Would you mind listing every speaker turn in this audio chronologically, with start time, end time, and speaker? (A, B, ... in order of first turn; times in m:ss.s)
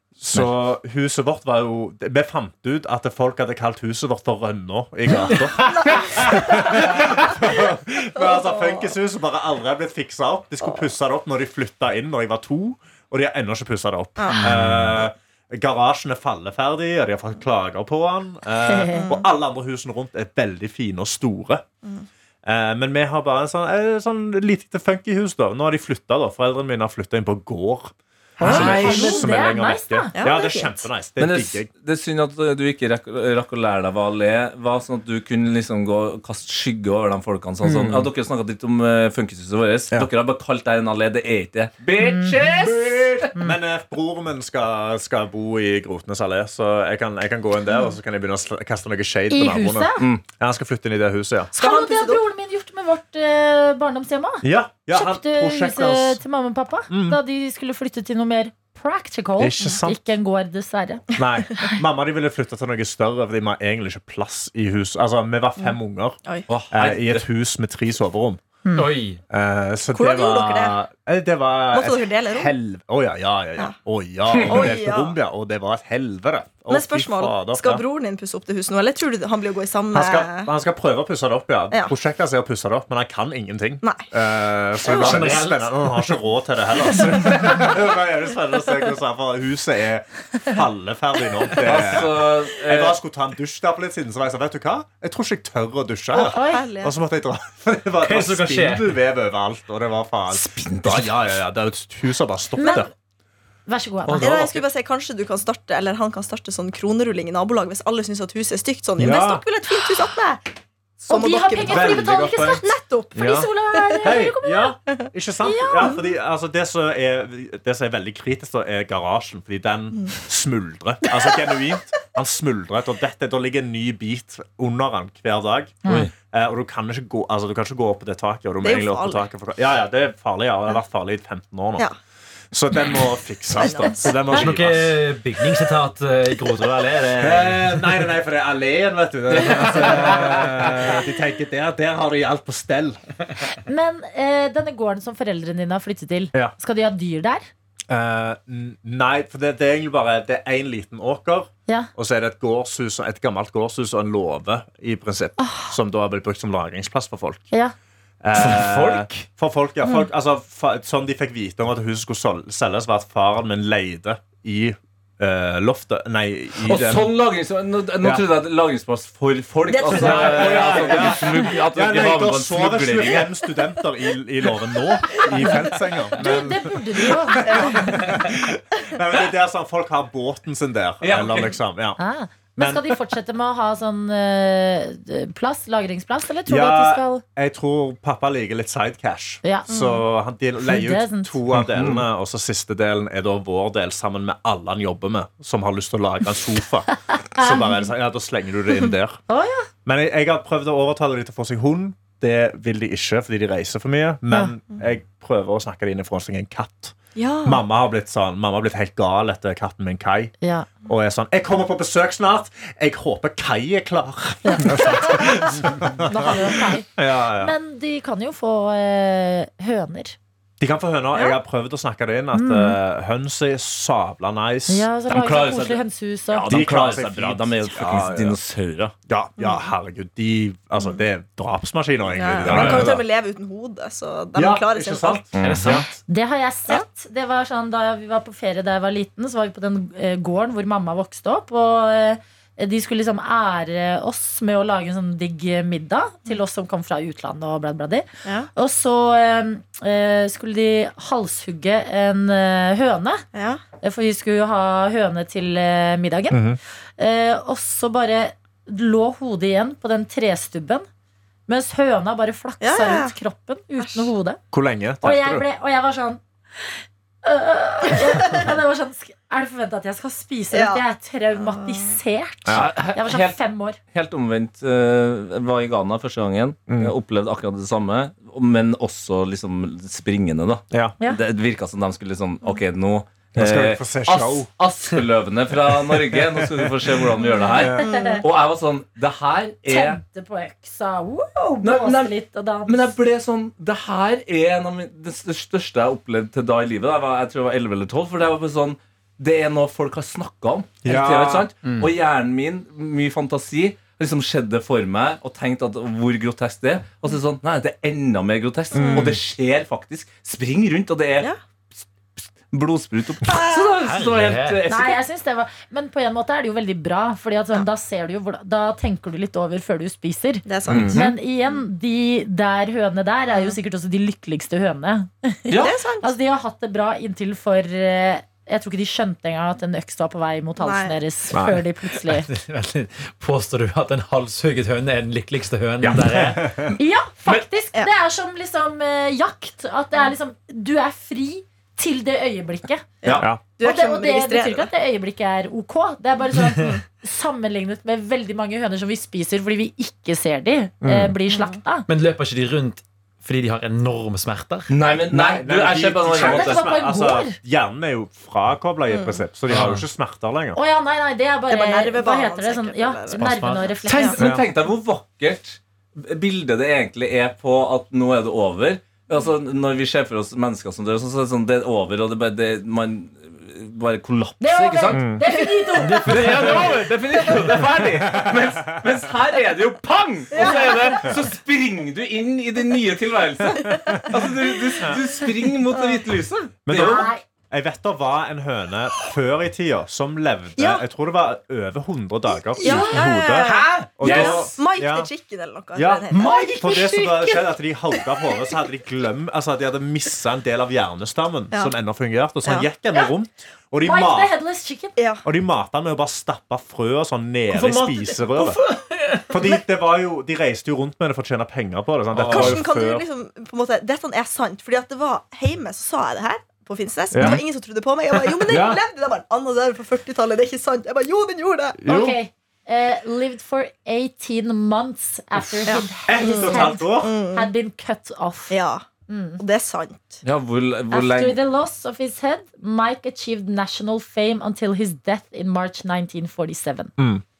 0:00.2-0:21.6 A
0:05.3-0:06.2 B
0:05.8-0:06.8 C
0:08.2-0:08.8 C
0:14.2-0:14.5 C
0:18.6-0:19.0 D
0:18.9-0:19.2 C
0:22.4-0:31.7 A
0:28.4-0:30.1 D
0:28.4-0:29.0 E
0:30.1-0:30.8 C
0:31.2-0:43.3 E
0:42.0-0:42.4 D
0:42.6-0:51.5 A
0:49.3-0:50.0 D
0:51.5-1:01.1 D
0:51.6-0:52.2 C
0:54.4-0:56.2 A
0:56.9-0:57.2 A
0:59.4-1:00.0 A
1:01.1-1:06.2 A
1:06.5-1:07.2 E
1:06.7-1:08.4 A
1:08.6-1:08.9 D
1:08.7-1:09.2 B
1:09.3-1:17.8 A
1:09.9-1:10.8 C
1:11.7-1:12.5 C
1:14.3-1:14.7 E
1:14.4-1:15.2 C
1:16.7-1:20.5 C
1:19.9-1:42.9 A
1:23.8-1:24.1 C
1:24.8-1:25.2 C
1:24.9-1:25.8 B
1:31.6-1:33.0 E
1:36.1-1:36.9 C
1:36.2-1:36.7 D
1:38.0-1:38.9 B
1:40.3-1:41.2 E
1:42.6-1:42.9 D
1:43.7-1:44.3 D
1:44.2-1:50.4 C
1:49.0-1:49.4 A
1:51.0-1:54.2 C
1:51.1-1:54.8 D
1:51.6-2:11.9 A
1:55.4-1:56.0 D
2:05.8-2:06.1 E
2:08.6-2:09.2 C
2:12.5-2:15.0 A
2:13.6-2:14.2 C
2:14.3-2:17.8 B
2:17.2-2:23.0 A
2:19.4-2:20.7 B
2:23.6-2:27.5 D
2:27.9-2:37.5 A
2:35.4-2:35.7 D
2:38.2-2:47.1 A
2:38.4-2:39.2 B
2:46.6-2:53.3 E
2:49.7-2:51.2 C
2:49.9-3:02.0 A
2:55.3-2:55.6 C
2:56.2-2:58.0 D
2:57.4-2:57.8 C
3:01.0-3:01.6 E
3:02.0-3:07.2 D
3:02.6-3:03.0 A
3:06.5-3:19.2 A
3:09.4-3:09.7 D
3:09.7-3:10.0 C
3:10.6-3:11.4 D
3:11.5-3:12.0 E
3:17.4-3:17.7 D
3:19.3-3:19.7 D
3:19.8-3:30.3 A
3:27.2-3:27.6 C
3:30.4-3:30.7 D
3:30.8-3:37.5 A
3:34.4-3:40.2 D
3:40.6-3:44.9 A
3:42.3-3:42.8 D
3:44.7-3:46.5 D
3:45.1-3:48.9 E
3:46.5-3:48.4 A
3:49.1-3:53.0 A
3:52.1-3:55.3 C
3:52.4-3:52.9 E
3:54.3-3:55.9 A
3:55.3-3:55.8 E
3:55.4-3:55.9 B
3:56.1-4:13.2 D
4:08.2-4:08.5 C
4:13.3-4:13.6 C
4:13.8-4:16.4 D
4:16.3-4:16.6 A
4:17.0-4:20.8 D
4:21.5-4:24.4 D
4:22.6-4:23.1 C
4:23.8-4:24.1 C
4:24.5-4:25.5 A
4:25.0-4:33.8 D
4:30.5-4:30.8 C
4:31.3-4:32.0 C
4:32.4-4:32.7 A
4:32.5-4:50.0 E
4:36.7-4:36.9 A
4:40.7-4:41.0 A
4:43.3-4:44.5 A
4:46.1-4:46.9 A
4:47.6-4:48.0 A
4:47.8-4:48.2 D
4:49.7-4:52.9 D
4:51.6-4:52.1 E
4:52.6-5:11.3 E
5:00.8-5:01.5 A
5:08.7-5:09.2 A
5:08.8-5:09.1 C
5:12.2-5:15.0 E
5:13.8-5:14.7 B
5:14.7-5:32.3 D
5:20.4-5:21.6 C
5:20.7-5:21.0 E
5:25.5-5:25.7 E
5:25.6-5:26.1 C
5:30.6-5:31.0 C
5:31.3-5:31.6 A
5:32.0-5:36.7 B
5:35.8-5:36.7 A
5:36.7-5:42.9 D
5:43.0-5:44.7 C
5:43.6-5:51.9 D
5:50.8-5:51.1 A
5:51.3-5:51.6 C
5:51.9-5:54.7 B
5:54.7-5:56.7 E
5:55.1-6:00.6 A
5:56.1-5:57.4 D
5:58.9-5:59.2 C
5:59.5-5:59.8 B
6:00.5-6:04.2 D
6:01.5-6:03.4 C
6:03.2-6:04.1 B
6:03.9-6:15.1 E
6:04.2-6:04.5 A
6:14.4-6:16.7 D
6:14.9-6:15.2 A
6:15.8-6:17.6 B
6:16.0-6:27.1 E
6:20.3-6:21.0 C
6:20.4-6:20.9 D
6:23.6-6:24.0 C
6:26.6-6:35.1 A
6:26.7-6:27.2 D
6:30.6-6:30.8 C
6:32.6-6:36.5 C
6:32.6-6:33.0 D
6:33.4-6:34.5 E
6:35.7-6:44.3 A
6:36.1-6:37.4 D
6:43.8-6:44.9 D
6:45.0-6:45.2 C
6:45.2-6:48.6 A
6:47.5-6:49.3 B
6:49.3-6:53.0 A
6:52.2-6:52.6 B
6:52.3-7:01.8 C
6:57.1-6:57.4 A
6:58.4-6:58.8 A
7:01.8-7:02.2 A
7:01.8-7:09.4 D
7:05.6-7:07.5 C
7:06.0-7:07.1 A
7:08.5-7:08.8 C
7:09.4-7:10.2 C
7:10.2-7:11.4 E
7:10.9-7:16.9 D
7:17.0-7:17.2 A